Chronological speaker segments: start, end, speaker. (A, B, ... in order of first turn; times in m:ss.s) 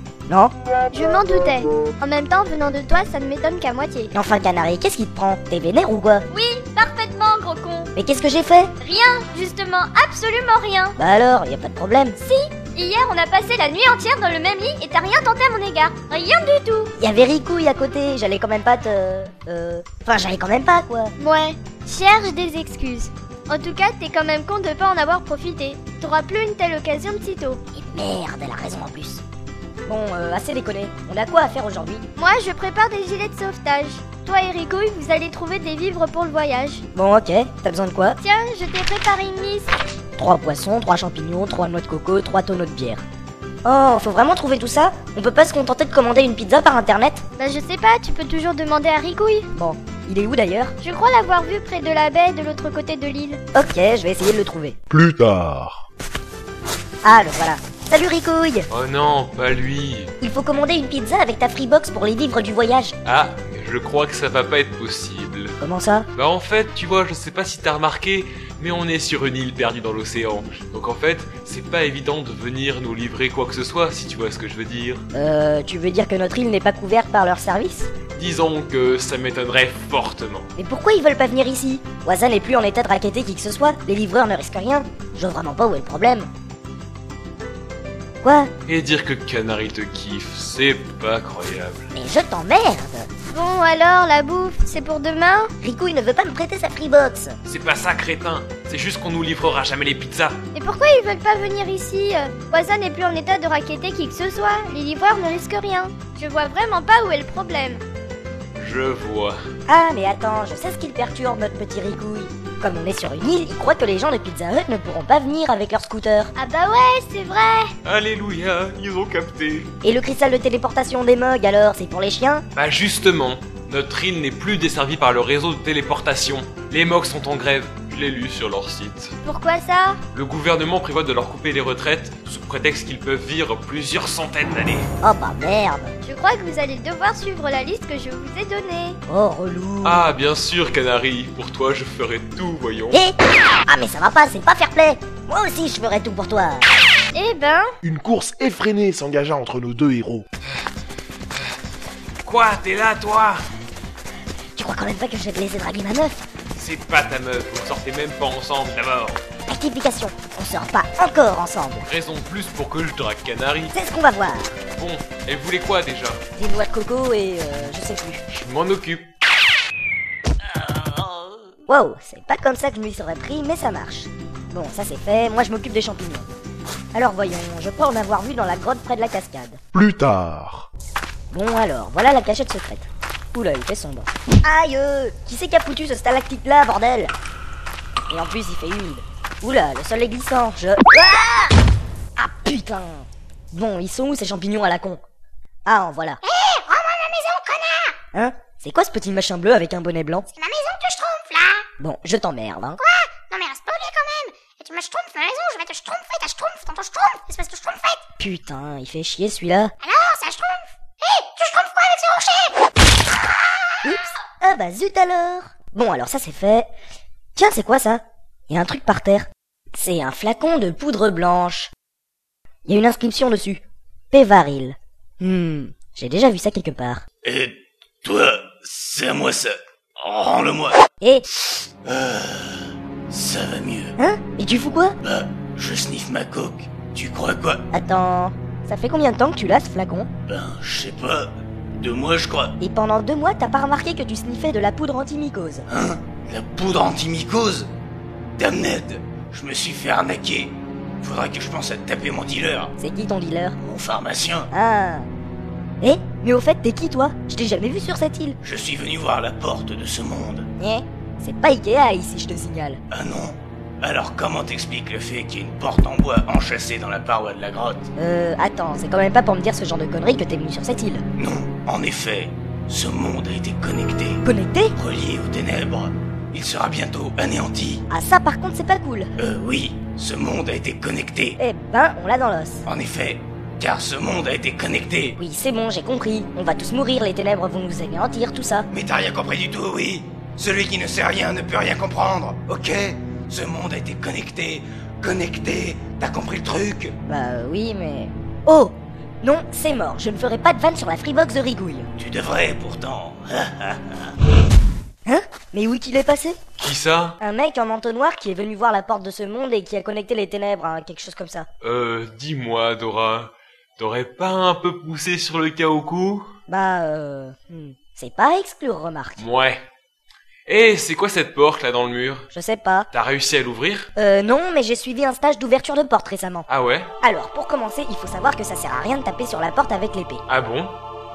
0:00.3-0:00.5 A
0:00.9-0:04.1 B
0:04.1-0:06.2 A
0:06.3-0:07.9 B
0:07.9-0:08.7 A
0:08.8-0:11.0 B
0:11.0-0:12.2 A
0:12.2-0:16.9 B
0:17.0-0:21.1 A
0:21.2-0:27.6 B
0:27.7-0:29.2 A
0:29.8-0:32.0 A
0:32.2-0:36.8 B
0:36.9-0:38.2 A
0:38.2-0:39.7 B
0:40.2-0:43.0 A
0:43.6-0:47.2 A
0:47.4-0:49.5 B
0:49.5-0:50.7 A
0:50.8-0:53.4 B
0:53.5-0:54.8 A
0:54.9-0:55.8 C
0:57.0-0:58.7 A
0:58.7-1:00.1 D
1:00.2-1:02.9 A
1:03.0-1:05.6 D
1:05.6-1:06.1 A
1:06.1-1:15.0 D
1:15.1-1:17.9 A
1:18.1-1:20.5 D
1:20.6-1:26.3 A
1:28.2-1:28.5 A
1:28.6-1:31.9 D
1:31.9-1:33.1 A
1:33.3-1:35.5 B
1:35.6-1:37.4 A
1:37.4-1:40.4 D
1:40.5-1:47.8 B
1:48.6-1:49.4 D
1:49.7-1:56.3 A
1:56.4-1:57.7 B
1:57.8-1:59.7 D
1:59.8-2:02.4 A
2:02.5-2:09.1 D
2:09.2-2:10.0 B
2:10.1-2:14.9 D
2:15.0-2:15.9 A
2:16.0-2:19.0 B
2:19.1-2:20.1 A
2:19.8-2:23.0 D
2:22.9-2:26.7 A
2:27.1-2:27.7 B
2:27.8-2:30.2 C
2:32.2-2:33.4 D
2:34.6-2:36.2 A
2:36.5-2:39.2 D
2:39.5-2:41.9 A
2:41.8-2:43.7 D
2:43.7-2:44.6 A
2:44.7-2:46.2 D
2:46.4-2:48.2 A
2:48.3-2:49.1 D
2:51.7-2:56.3 A
2:56.9-2:59.6 A
2:59.7-3:00.7 C
3:01.3-3:07.1 A
3:08.1-3:11.6 A
3:12.2-3:15.0 A
3:15.6-3:16.2 A
3:16.2-3:18.0 E
3:18.1-3:20.3 A
3:20.4-3:21.6 E
3:21.8-3:22.8 A
3:22.8-3:28.0 E
3:28.2-3:29.7 A
3:29.8-3:32.5 E
3:33.8-3:36.7 A
3:37.4-3:41.7 A
3:42.6-3:47.0 A
3:47.2-3:50.8 F
3:51.4-3:54.0 F
3:54.0-3:55.0 A
3:55.0-3:57.6 F
3:57.7-4:00.1 A
4:00.3-4:02.6 F
4:02.6-4:05.6 A
4:05.7-4:07.7 F
4:08.4-4:12.7 F
4:12.8-4:13.6 A
4:13.6-4:14.5 F
4:14.5-4:15.1 A
4:15.8-4:18.4 A
4:18.4-4:20.5 F
4:20.6-4:22.8 A
4:22.9-4:27.9 F
4:28.0-4:31.0 A
4:31.2-4:34.2 F
4:34.2-4:34.7 A
4:34.8-4:37.8 F
4:37.9-4:39.1 A
4:39.2-4:41.4 F
4:41.4-4:42.6 A
4:42.6-4:45.2 F
4:45.2-4:48.7 A
4:48.7-4:57.0 F
4:57.0-5:01.9 A
5:02.0-5:04.1 F
5:05.0-5:06.4 A
5:06.6-5:07.2 D
5:07.2-5:11.5 A
5:11.6-5:16.3 D
5:16.5-5:19.2 A
5:19.2-5:19.6 D
5:20.5-5:22.2 D
5:22.3-5:22.9 A
5:22.9-5:23.9 D
5:23.9-5:26.5 A
5:26.5-5:26.9 D
5:27.0-5:30.2 A
5:30.3-5:30.8 D